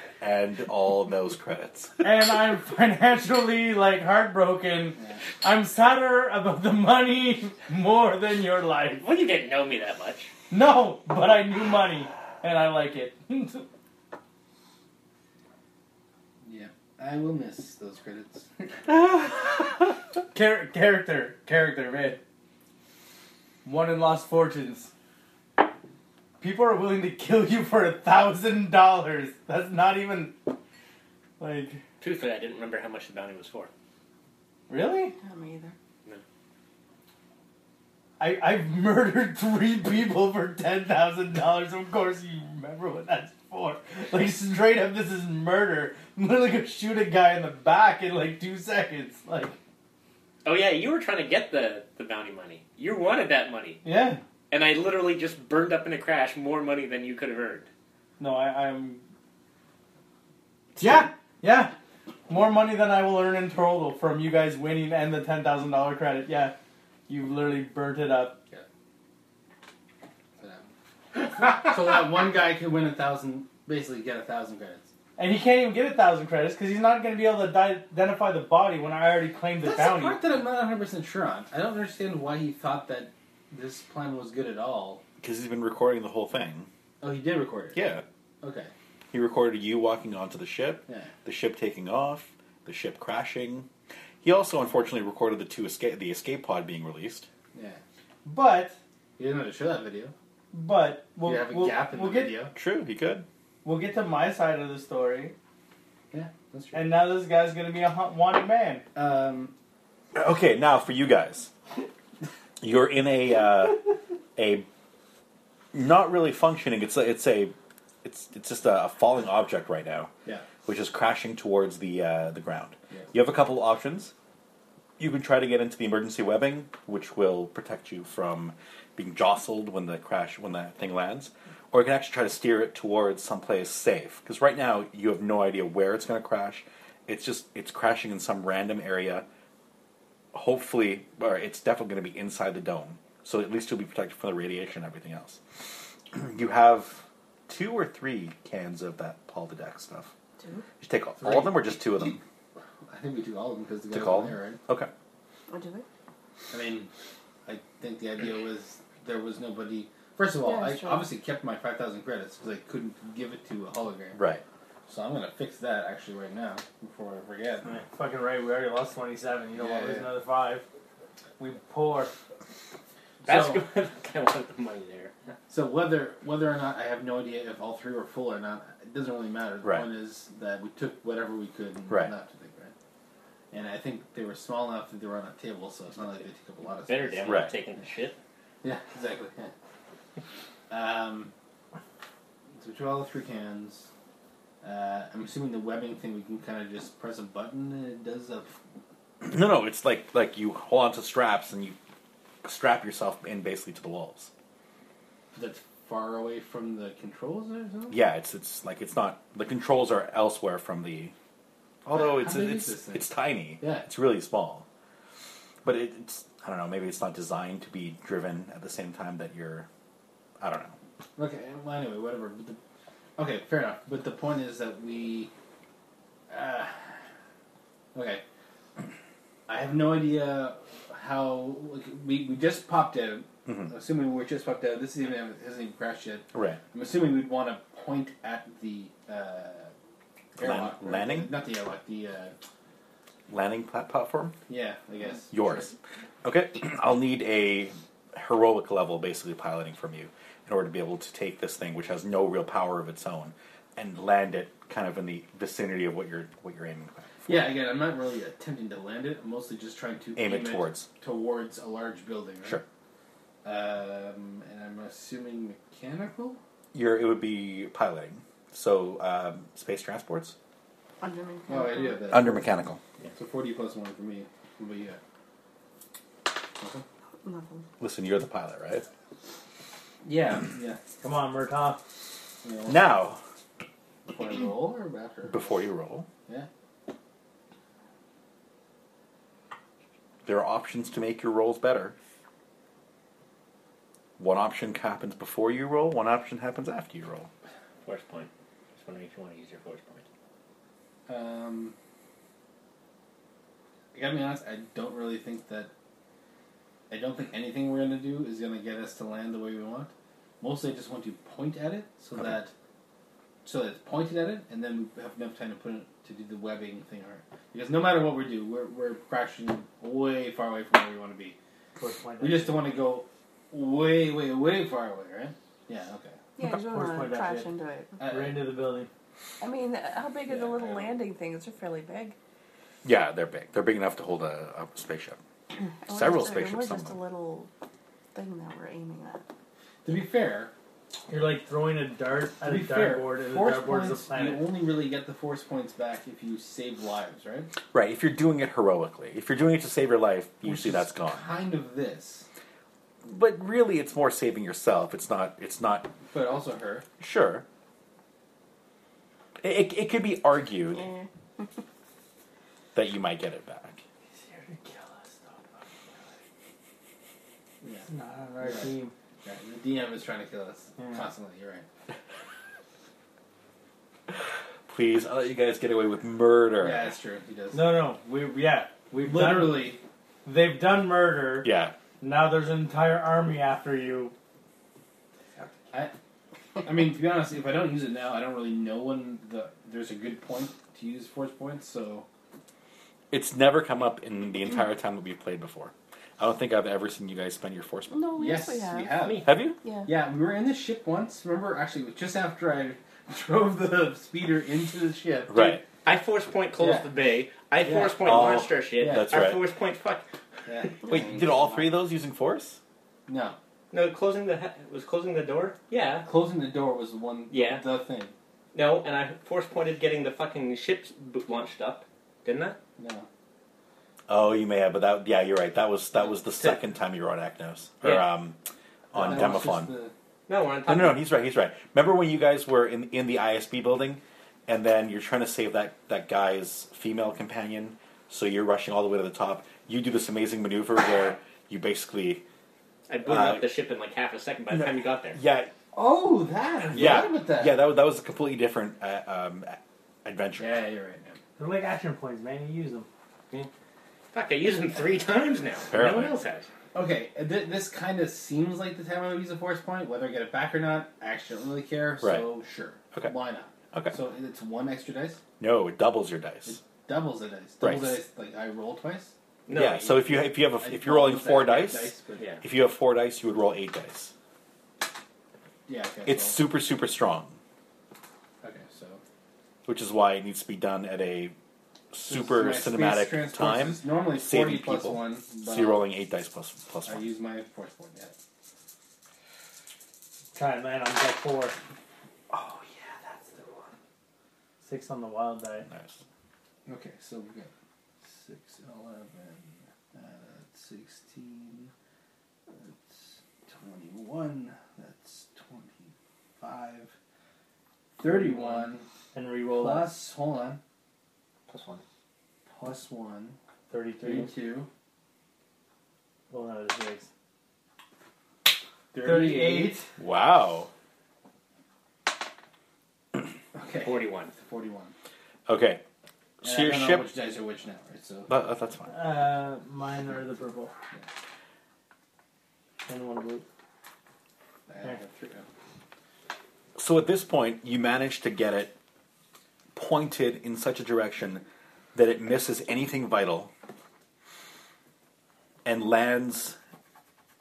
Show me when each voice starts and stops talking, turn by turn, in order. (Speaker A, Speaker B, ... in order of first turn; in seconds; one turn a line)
Speaker A: 0.2-2.0
Speaker B: 2.0-9.0
Speaker C: 9.0-10.3
Speaker B: 10.5-13.7
Speaker D: 16.4-18.9
Speaker B: 20.3-22.2
Speaker B: 23.6-24.9
Speaker B: 26.4-30.5
Speaker B: 31.4-31.8
Speaker C: 32.0-33.7
Speaker B: 34.7-35.1
Speaker E: 35.2-35.7
Speaker B: 38.2-49.5
Speaker C: 50.4-53.8
Speaker B: 53.8-54.2
Speaker C: 54.5-57.7
Speaker B: 58.2-59.0
Speaker A: 60.8-61.1
Speaker B: 60.8-61.7
Speaker B: 62.3-66.5
Speaker B: 67.1-68.4
Speaker D: 70.4-74.9
Speaker B: 75.2-80.2
Speaker D: 79.6-85.0
Speaker A: 85.2-86.7
Speaker D: 87.0-87.8
Speaker A: 87.7-88.0
Speaker D: 88.4-88.7
Speaker A: 89.1-93.7
Speaker A: 94.2-97.3
Speaker D: 97.5-97.8
Speaker B: 98.2-98.8
Speaker D: 99.2-100.1
Speaker B: 100.5-102.3
Speaker D: 101.2-102.5
Speaker A: 102.5-103.3
Speaker B: 103.6-105.3
Speaker D: 106.1-106.9
Speaker B: 106.7-108.8
Speaker D: 108.9-109.5
Speaker A: 110.1-111.5
Speaker A: 112.6-113.8
Speaker A: 114.3-114.7
Speaker A: 115.7-120.1
Speaker A: 120.6-124.1
Speaker A: 125.0-139.2
Speaker A: 140.3-150.1
Speaker E: 150.4-150.7
Speaker A: 150.8-152.2
Speaker D: 151.2-152.2
Speaker D: 152.8-154.6
Speaker A: 153.9-154.9
Speaker E: 155.5-155.8
Speaker D: 156.5-156.9
Speaker D: 157.4-164.2
Speaker E: 160.4-161.1
Speaker A: 164.1-164.4
Speaker D: 164.9-167.8
Speaker B: 167.7-170.7
Speaker D: 169.6-170.1
Speaker B: 171.4-172.1
Speaker D: 173.2-173.6
Speaker C: 173.2-175.1
Speaker D: 175.5-182.7
Speaker D: 183.5-187.5
Speaker C: 186.9-188.2
Speaker A: 187.2-187.5
Speaker D: 188.6-189.5
Speaker D: 190.7-191.3
Speaker D: 192.6-193.9
Speaker D: 194.6-198.6
Speaker A: 199.2-201.8
Speaker A: 202.4-204.3
Speaker D: 205.3-208.0
Speaker A: 207.9-211.1
Speaker A: 211.8-214.7
Speaker D: 211.9-213.1
Speaker D: 213.6-213.9
Speaker A: 215.6-219.7
Speaker A: 220.4-220.8
Speaker D: 221.2-222.6
Speaker D: 223.2-225.3
Speaker D: 226.3-226.9
Speaker D: 227.9-228.2
Speaker D: 229.5-239.7
Speaker A: 233.4-233.7
Speaker A: 236.3-236.6
Speaker D: 240.3-242.3
Speaker A: 240.4-241.3
Speaker A: 243.3-244.4
Speaker D: 244.5-245.7
Speaker A: 245.3-245.7
Speaker A: 246.2-257.5
Speaker D: 257.3-262.6
Speaker A: 260.1-260.9
Speaker D: 263.4-266.4
Speaker A: 266.7-270.4
Speaker E: 271.0-272.1
Speaker D: 271.5-272.5
Speaker A: 272.1-272.8
Speaker D: 273.1-275.0
Speaker D: 276.6-276.8
Speaker E: 277.2-277.6
Speaker A: 277.8-278.9
Speaker D: 280.0-280.8
Speaker B: 281.0-281.8
Speaker D: 282.4-282.8
Speaker A: 282.7-283.2
Speaker D: 284.1-285.6
Speaker A: 285.3-286.1
Speaker A: 290.2-291.9
Speaker A: 294.2-297.3
Speaker C: 297.8-300.0
Speaker D: 301.1-301.8
Speaker D: 303.9-305.7
Speaker D: 306.9-312.5
Speaker D: 313.4-321.4
Speaker B: 321.8-322.7
Speaker D: 322.2-326.2
Speaker E: 326.4-328.0
Speaker B: 326.4-327.5
Speaker D: 328.0-328.5
Speaker B: 328.0-328.9
Speaker E: 329.4-332.1
Speaker D: 330.2-331.0
Speaker A: 332.8-335.2
Speaker E: 335.6-337.5
Speaker A: 335.9-337.0
Speaker E: 338.1-339.2
Speaker D: 339.8-340.5
Speaker B: 341.1-344.5
Speaker D: 342.4-347.5
Speaker A: 347.7-351.3
Speaker D: 350.4-352.3
Speaker A: 353.0-355.9
Speaker D: 356.1-356.9
Speaker A: 357.0-357.4
Speaker A: 359.4-360.9
Speaker E: 360.7-361.4
Speaker A: 362.7-363.8
Speaker B: 364.2-366.1
Speaker D: 367.6-367.9
Speaker B: 367.9-368.9
Speaker D: 368.4-368.7
Speaker D: 369.2-371.6
Speaker B: 370.8-371.0
Speaker A: 374.7-376.9
Speaker D: 376.6-377.8
Speaker B: 377.5-379.7
Speaker D: 379.0-379.8
Speaker B: 380.2-381.5
Speaker A: 381.4-381.7
Speaker B: 382.0-384.1
Speaker D: 386.6-392.1
Speaker A: 393.1-398.1
Speaker E: 397.9-399.0
Speaker D: 398.1-399.3
Speaker C: 399.0-399.2
Speaker A: 399.2-399.6
Speaker E: 399.6-399.9
Speaker D: 399.9-405.6
Speaker A: 405.3-405.6
Speaker C: 405.8-410.0
Speaker D: 406.6-406.9
Speaker D: 407.6-409.2
Speaker A: 408.0-409.4
Speaker D: 410.4-411.7
Speaker A: 410.9-412.6
Speaker D: 413.1-413.4
Speaker C: 413.7-416.1
Speaker D: 416.0-418.1
Speaker C: 417.3-417.6
Speaker C: 418.5-422.6
Speaker D: 422.8-423.1
Speaker A: 424.1-428.4
Speaker D: 426.0-426.6
Speaker C: 427.8-428.1
Speaker A: 428.9-429.7
Speaker D: 428.9-429.9
Speaker C: 430.3-431.0
Speaker A: 430.7-442.2
Speaker C: 442.9-445.2
Speaker A: 443.0-443.5
Speaker A: 444.5-445.5
Speaker D: 445.7-447.6
Speaker A: 446.7-450.6
Speaker D: 450.4-451.2
Speaker B: 451.4-452.9
Speaker C: 454.1-456.5
Speaker A: 455.7-456.2
Speaker D: 456.7-465.2
Speaker A: 462.0-462.3
Speaker A: 465.4-466.6
Speaker D: 466.5-472.3
Speaker A: 467.6-468.0
Speaker C: 469.5-469.9
Speaker A: 469.5-474.1
Speaker C: 472.2-472.4
Speaker D: 475.7-476.4
Speaker A: 476.1-477.4
Speaker D: 478.4-479.0
Speaker A: 479.6-481.3
Speaker A: 481.9-487.1
Speaker D: 482.1-485.9
Speaker D: 486.9-488.1
Speaker B: 490.3-491.6
Speaker A: 492.3-493.1
Speaker B: 494.6-495.7
Speaker A: 495.7-496.0
Speaker D: 496.6-497.5
Speaker D: 498.0-501.7
Speaker D: 502.5-506.9
Speaker D: 508.0-508.8
Speaker B: 508.1-508.6
Speaker B: 509.1-510.0
Speaker D: 509.5-510.6
Speaker C: 511.5-511.8
Speaker D: 512.5-513.4
Speaker B: 513.7-514.3
Speaker D: 514.0-514.7
Speaker B: 516.3-517.1
Speaker D: 518.9-519.8
Speaker B: 519.0-519.9
Speaker A: 520.0-520.7
Speaker D: 523.5-524.9
Speaker C: 523.8-524.3
Speaker A: 525.5-525.8
Speaker A: 526.4-527.1
Speaker D: 526.4-528.3
Speaker A: 528.3-528.9
Speaker B: 528.9-530.7
Speaker B: 532.9-533.4
Speaker D: 534.7-535.5
Speaker A: 536.8-538.7
Speaker A: 539.7-543.5
Speaker A: 545.6-546.6